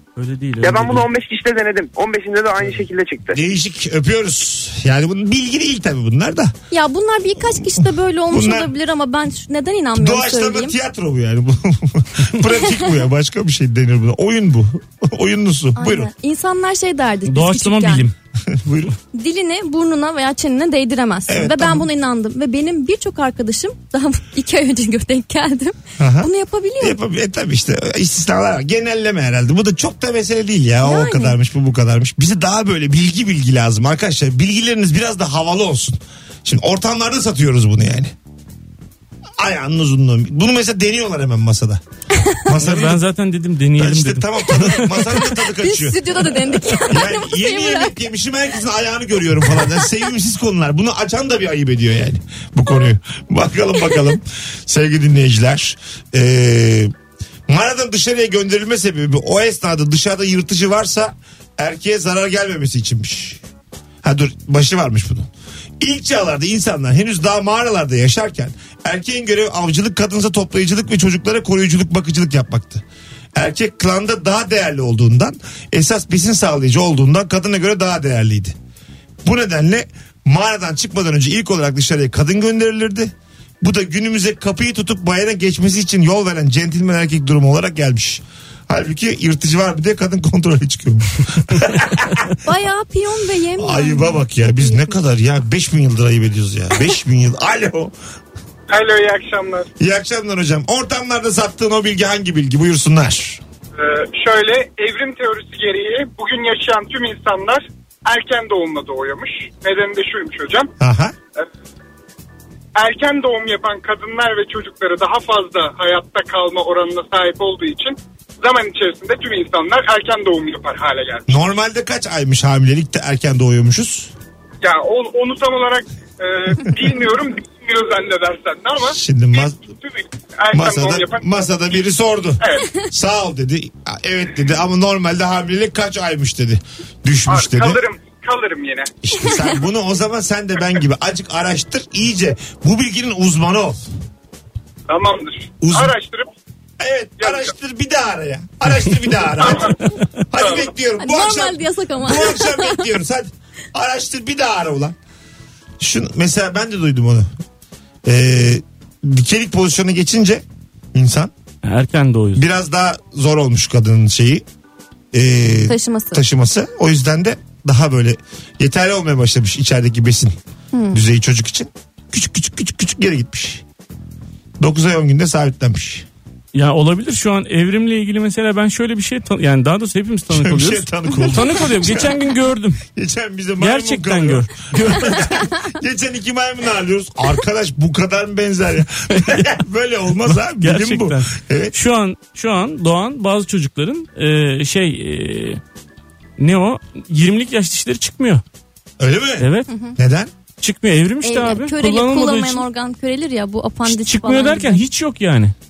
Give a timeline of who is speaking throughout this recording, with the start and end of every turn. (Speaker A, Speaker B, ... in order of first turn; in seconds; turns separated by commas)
Speaker A: 0.1-1.0, Speaker B: 0.6-3.4, Speaker C: 3.3-6.5, Speaker D: 6.7-10.8, Speaker C: 7.6-8.7, Speaker C: 9.9-16.1, Speaker D: 15.8-18.0, Speaker A: 17.2-18.1, Speaker C: 18.4-18.9, Speaker D: 19.1-27.0, Speaker C: 21.3-21.9, Speaker C: 26.0-38.1, Speaker D: 30.8-31.4, Speaker C: 39.4-41.8, Speaker D: 42.1-42.4, Speaker C: 42.4-43.0, Speaker A: 42.6-45.1, Speaker C: 43.8-56.9, Speaker D: 45.4-47.9, Speaker C: 57.5-63.4, Speaker C: 64.0-65.3, Speaker C: 65.8-72.8, Speaker C: 73.3-78.5, Speaker C: 79.2-92.3, Speaker D: 92.4-95.0, Speaker C: 93.6-97.9, Speaker E: 98.7-99.7, Speaker C: 99.8-103.4, Speaker E: 103.7-110.7, Speaker C: 110.8-111.1, Speaker E: 112.8-121.3, Speaker C: 121.3-124.1, Speaker E: 124.6-131.5, Speaker C: 128.8-129.7, Speaker C: 130.5-137.8, Speaker E: 132.4-132.7, Speaker E: 137.3-138.9, Speaker C: 139.0-143.8, Speaker E: 144.9-146.3, Speaker C: 145.6-145.9, Speaker C: 146.8-154.9, Speaker E: 147.2-147.5, Speaker E: 149.4-149.8, Speaker E: 150.4-150.7, Speaker D: 151.0-152.9, Speaker C: 155.8-157.3, Speaker C: 158.1-161.3, Speaker A: 161.6-162.4, Speaker C: 162.3-164.4, Speaker C: 165.1-170.3, Speaker D: 165.7-166.2, Speaker D: 170.7-171.0, Speaker C: 170.9-173.6, Speaker C: 174.6-176.1, Speaker A: 176.5-182.8, Speaker C: 180.3-182.2, Speaker C: 182.9-191.7, Speaker A: 183.6-185.3, Speaker A: 189.1-189.4, Speaker A: 190.2-195.6, Speaker A: 196.4-198.4, Speaker C: 199.0-200.3, Speaker A: 199.4-199.7, Speaker D: 199.7-199.9, Speaker A: 200.6-202.6, Speaker D: 201.2-204.8, Speaker A: 203.9-205.5